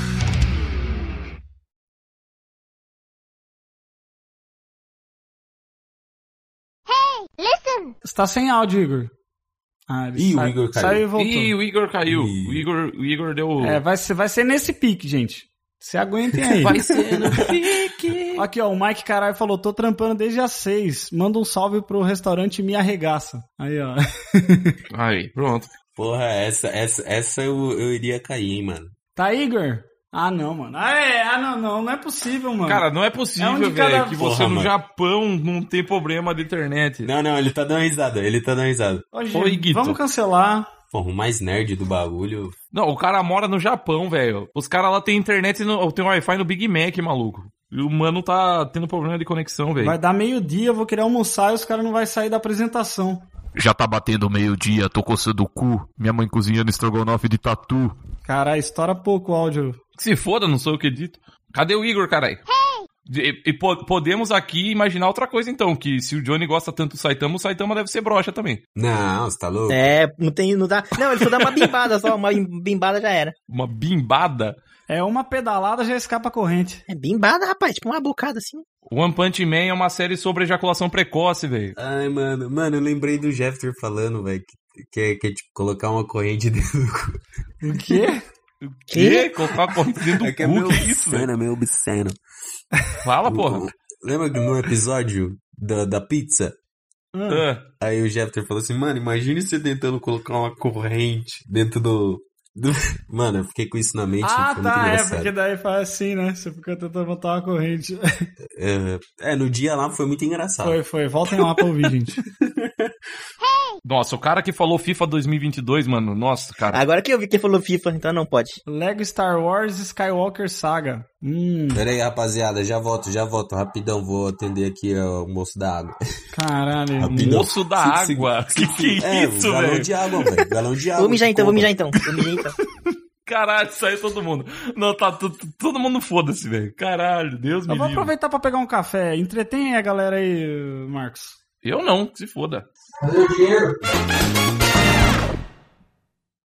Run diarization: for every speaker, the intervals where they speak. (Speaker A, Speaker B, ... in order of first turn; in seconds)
Speaker A: 8.0-9.1, 9.9-11.5, 13.6-16.8, 18.4-24.8, 29.2-32.8, 33.4-34.6, 39.1-40.7, 49.8-53.2, 58.2-59.8, 74.9-76.8, 87.6-88.2, 97.1-97.5, 104.2-108.3, 110.6-112.2, 118.7-121.8, 126.3-127.4, 137.7-141.4
Speaker B: 10.2-11.1, 12.1-12.7, 16.7-17.6, 26.0-28.9, 37.0-39.0, 40.9-42.5, 68.8-69.8, 81.8-87.2, 90.1-92.2, 93.3-96.6, 97.8-105.3, 108.5-110.8, 112.4-112.9, 121.7-126.2, 127.0-131.8, 143.0-143.8
Speaker C: 11.2-13.8, 16.6-18.4, 24.9-25.7, 32.7-37.1, 39.3-40.0, 42.7-50.0, 53.6-58.0, 60.0-62.4, 63.1-68.6, 71.4-71.9, 73.5-74.6, 78.9-81.8, 88.6-91.3, 93.0-93.7, 97.3-97.6, 113.8-116.8, 127.2-130.3, 133.3-138.1, 141.6-142.7
Speaker D: 69.7-73.3, 76.9-78.7, 88.9-89.6, 116.7-118.6, 131.0-132.6